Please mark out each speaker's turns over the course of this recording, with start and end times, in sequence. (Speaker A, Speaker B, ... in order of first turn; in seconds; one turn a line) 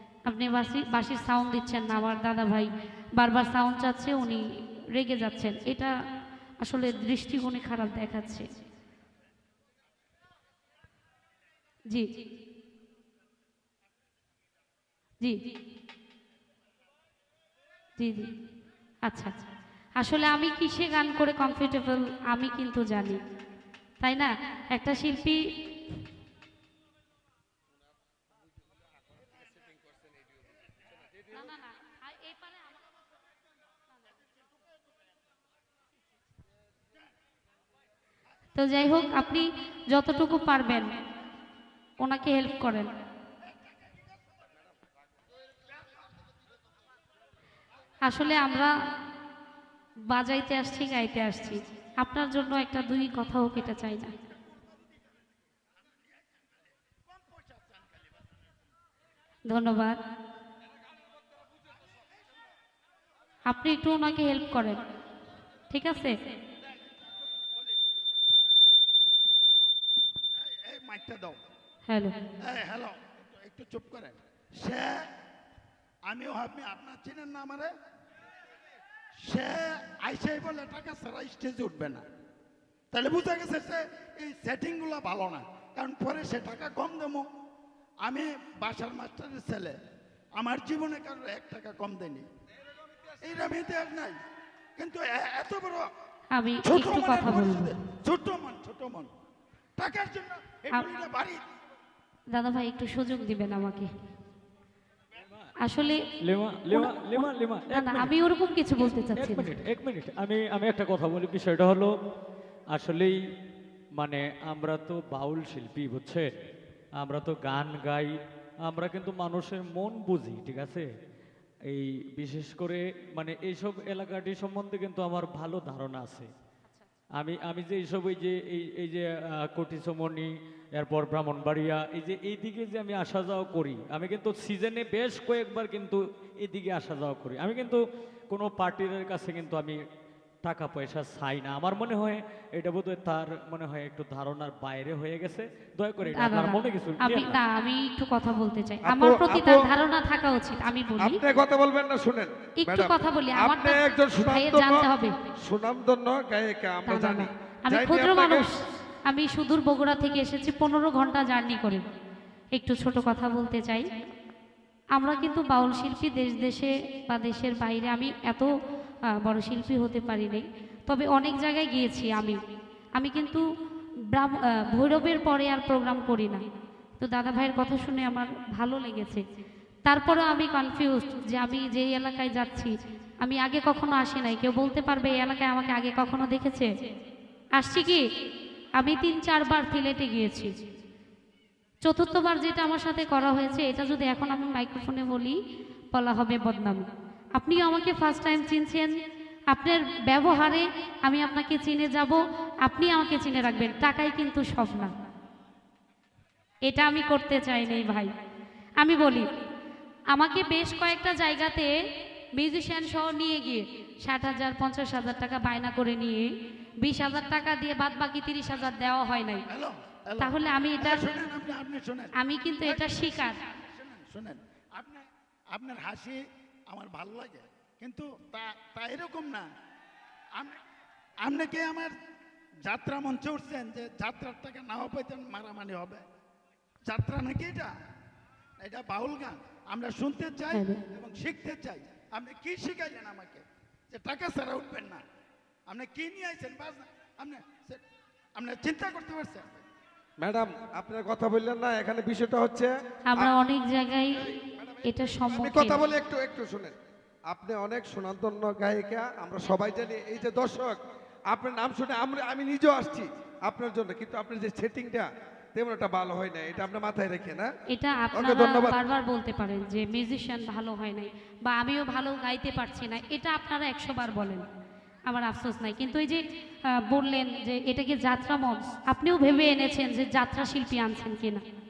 Speaker A: 0.2-5.9
Speaker A: 6.6-8.5
Speaker A: 18.0-18.3
Speaker A: 19.1-19.4
Speaker A: 20.0-23.2
Speaker A: 24.0-25.4
Speaker A: 31.3-32.8
Speaker A: 38.5-41.0
Speaker A: 42.0-43.0
Speaker A: 48.0-48.8
Speaker A: 50.0-54.2
Speaker B: 56.2-58.0
Speaker A: 59.5-60.0
Speaker A: 63.5-64.8
Speaker A: 65.7-66.2
Speaker B: 70.4-71.4
Speaker A: 71.9-72.2
Speaker B: 72.4-75.1
Speaker B: 76.1-77.7
Speaker B: 79.2-82.0
Speaker B: 82.9-87.3
Speaker B: 88.0-89.8
Speaker B: 90.4-92.3
Speaker B: 93.2-94.2
Speaker B: 94.8-95.9
Speaker A: 96.3-97.7
Speaker B: 96.6-99.1
Speaker B: 99.8-101.4
Speaker A: 102.3-103.9
Speaker A: 105.6-106.0
Speaker C: 106.2-108.2
Speaker A: 106.7-109.5
Speaker C: 109.2-111.9
Speaker C: 112.7-113.2
Speaker C: 114.0-116.3
Speaker C: 117.0-118.1
Speaker C: 118.7-120.9
Speaker C: 121.7-126.3
Speaker C: 127.2-139.8
Speaker C: 140.4-147.3
Speaker A: 146.1-151.2
Speaker D: 148.8-149.7
Speaker D: 151.0-154.9
Speaker A: 152.6-155.2
Speaker D: 155.4-158.5
Speaker A: 156.9-161.8
Speaker A: 162.5-163.9
Speaker A: 164.9-168.5
Speaker A: 169.1-172.4
Speaker A: 173.0-173.4
Speaker A: 174.1-176.4
Speaker A: 177.0-179.2
Speaker A: 179.8-186.8
Speaker A: 187.6-188.0
Speaker A: 188.8-190.6
Speaker A: 191.8-195.4
Speaker A: 195.9-198.9
Speaker A: 199.5-204.9
Speaker A: 206.7-208.1
Speaker A: 208.8-209.5
Speaker A: 210.1-211.7
Speaker A: 212.4-216.3
Speaker A: 216.8-219.4
Speaker B: 219.5-229.5
Speaker A: 220.2-221.1
Speaker A: 222.2-223.4
Speaker B: 230.4-230.6
Speaker B: 231.2-231.9
Speaker B: 232.6-236.0
Speaker B: 236.9-237.7
Speaker B: 238.6-245.0
Speaker A: 240.5-240.8
Speaker B: 245.7-247.8
Speaker B: 248.4-249.6
Speaker D: 250.2-253.3
Speaker A: 253.1-255.9
Speaker D: 254.3-256.7
Speaker D: 257.3-260.8
Speaker D: 261.3-267.5
Speaker A: 267.7-274.5
Speaker D: 268.1-268.8
Speaker A: 275.1-281.4